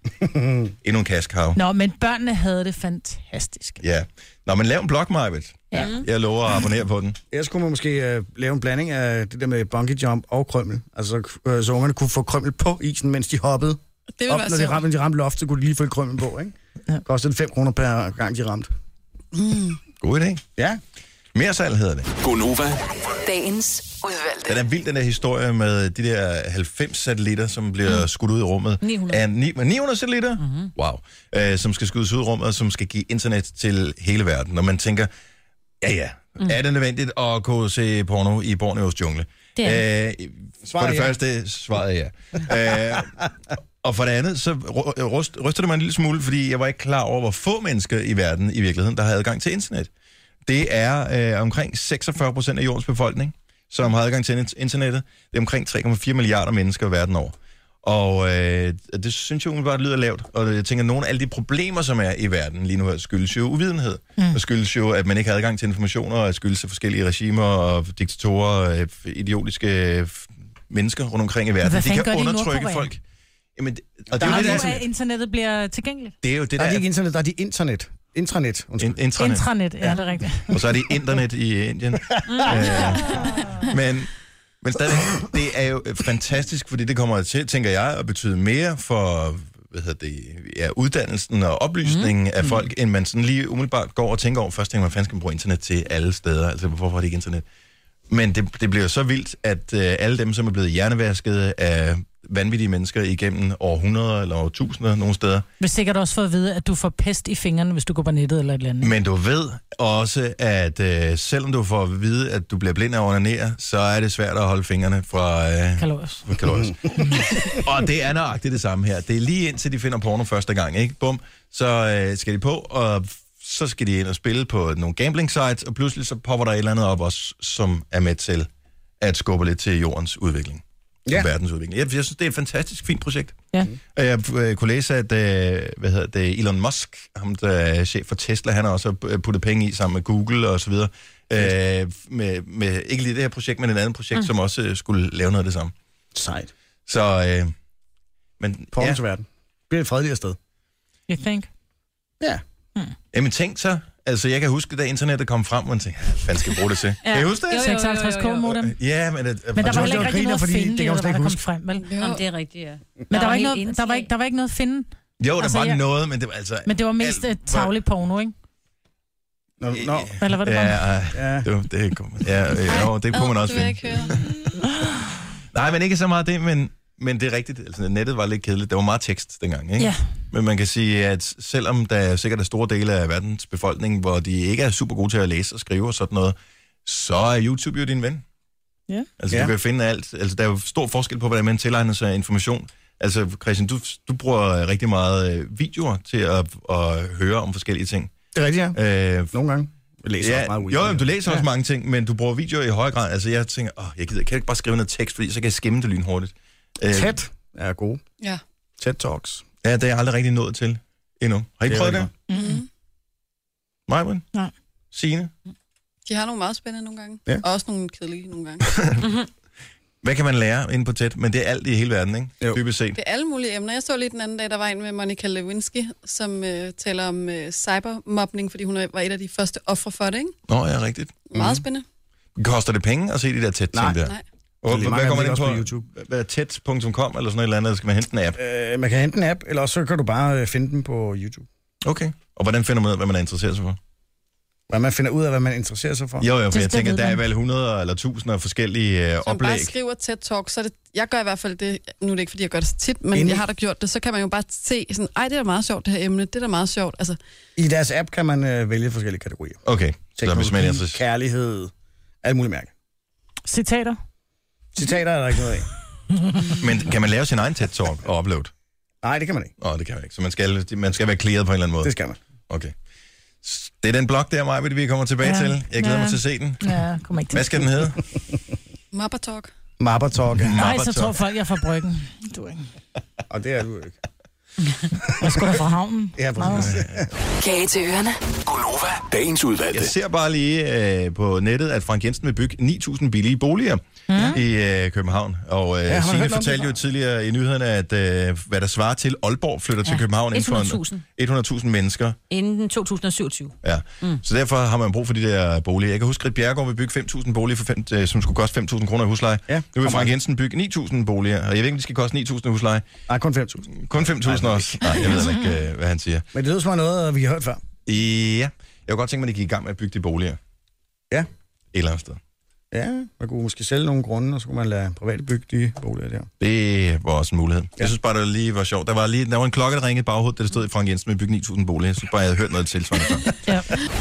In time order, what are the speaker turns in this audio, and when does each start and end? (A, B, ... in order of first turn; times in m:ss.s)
0:00.2-0:00.7 A
0:00.8-0:01.6 B
0:01.5-0:03.8 C
0:03.8-0:07.2 B
0:05.7-0:06.0 D
0:07.3-0:18.7 A
0:14.2-0:14.8 E
0:19.3-0:19.8 E
0:20.0-0:20.4 B
0:21.3-0:22.1 B
0:22.2-0:22.8 F
0:23.2-0:24.6 G
0:24.5-0:35.1 B
0:28.8-0:29.2 D
0:30.4-0:30.7 D
0:35.8-0:43.1 B
0:39.6-0:39.8 D
0:40.6-0:41.2 A
0:42.6-0:43.3 A
0:43.8-0:49.9 B
0:50.4-1:13.0 B
1:11.6-1:12.9 C
1:13.6-1:14.8 B
1:14.1-1:14.8 A
1:14.2-1:16.1 C
1:16.2-1:16.8 B
1:16.6-1:19.0 A
1:18.8-1:20.0 B
1:19.2-1:20.5 C
1:20.5-1:37.4 B
1:22.3-1:23.1 D
1:31.8-1:32.6 D
1:38.1-1:45.4 B
1:45.6-1:48.9 C
1:48.8-2:08.5 B
1:55.8-1:56.2 C
1:56.5-1:57.0 A
2:09.0-2:25.7 B
2:26.1-2:26.5 A
2:26.8-2:27.5 B
2:28.4-2:29.0 B
2:28.7-2:30.4 A
2:31.1-2:31.5 C
2:33.1-2:37.7 B
2:37.0-2:38.5 D
2:37.5-2:38.8 C
2:38.5-2:40.1 B
2:39.5-2:41.8 C
2:39.6-2:41.4 A
2:41.8-2:42.2 E
2:42.0-2:44.1 D
2:43.1-2:44.9 C
2:45.2-2:47.7 B
2:45.4-2:45.8 C
2:46.6-2:48.3 C
2:49.6-2:50.1 A
2:49.7-2:54.3 B
2:50.2-2:50.8 C
2:51.1-2:51.5 A
2:53.1-2:54.5 E
2:55.5-3:08.2 B
3:09.2-3:18.1 B
3:18.3-3:18.8 A
3:18.7-3:19.3 B
3:19.3-3:21.4 A
3:20.2-3:27.1 B
3:26.9-3:28.0 A
3:28.8-3:29.4 A
3:29.6-3:32.1 B
3:31.7-3:32.1 A
3:32.3-3:32.6 C
3:32.3-3:32.6 E
3:33.9-3:34.2 B
3:34.9-3:35.3 B
3:36.0-3:38.6 E
3:40.0-3:43.0 B
3:43.0-3:50.3 E
3:50.5-3:51.6 B
3:51.3-3:51.8 E
3:52.4-3:58.4 B
3:53.7-3:54.0 A
3:54.6-3:55.8 A
3:58.4-4:01.4 A
4:01.8-4:03.8 B
4:04.7-4:06.3 A
4:06.2-4:09.7 B
4:06.5-4:07.2 C
4:09.2-4:17.2 E
4:13.1-4:13.4 A
4:17.6-4:19.6 A
4:19.6-4:21.0 B
4:20.2-4:22.7 A
4:23.4-4:24.0 C
4:24.7-4:25.7 A
4:26.5-4:28.5 B
4:29.0-4:29.5 A
4:29.6-4:31.9 B
4:31.8-4:32.2 A
4:33.4-4:36.8 B
4:35.2-4:37.6 C
4:37.3-4:38.1 B
4:38.9-4:39.5 E
4:39.8-4:40.6 A
4:40.3-4:41.1 B
4:40.6-4:42.7 C
4:43.3-4:44.0 A
4:45.1-4:46.7 C
4:46.2-4:47.1 A
4:46.6-4:47.0 B
4:47.4-4:48.3 G
4:48.4-4:49.9 F
4:49.7-5:02.2 B
4:54.1-4:54.4 C
4:55.8-4:56.8 A
4:59.8-5:01.0 D
5:02.3-5:04.2 D
5:03.6-5:12.8 B
5:09.5-5:10.2 A
5:13.1-5:15.2 A
5:13.7-5:16.2 B
5:16.3-5:17.6 A
5:17.8-5:20.4 B
5:21.7-5:22.2 B
5:22.7-5:26.3 A
5:26.4-5:33.3 B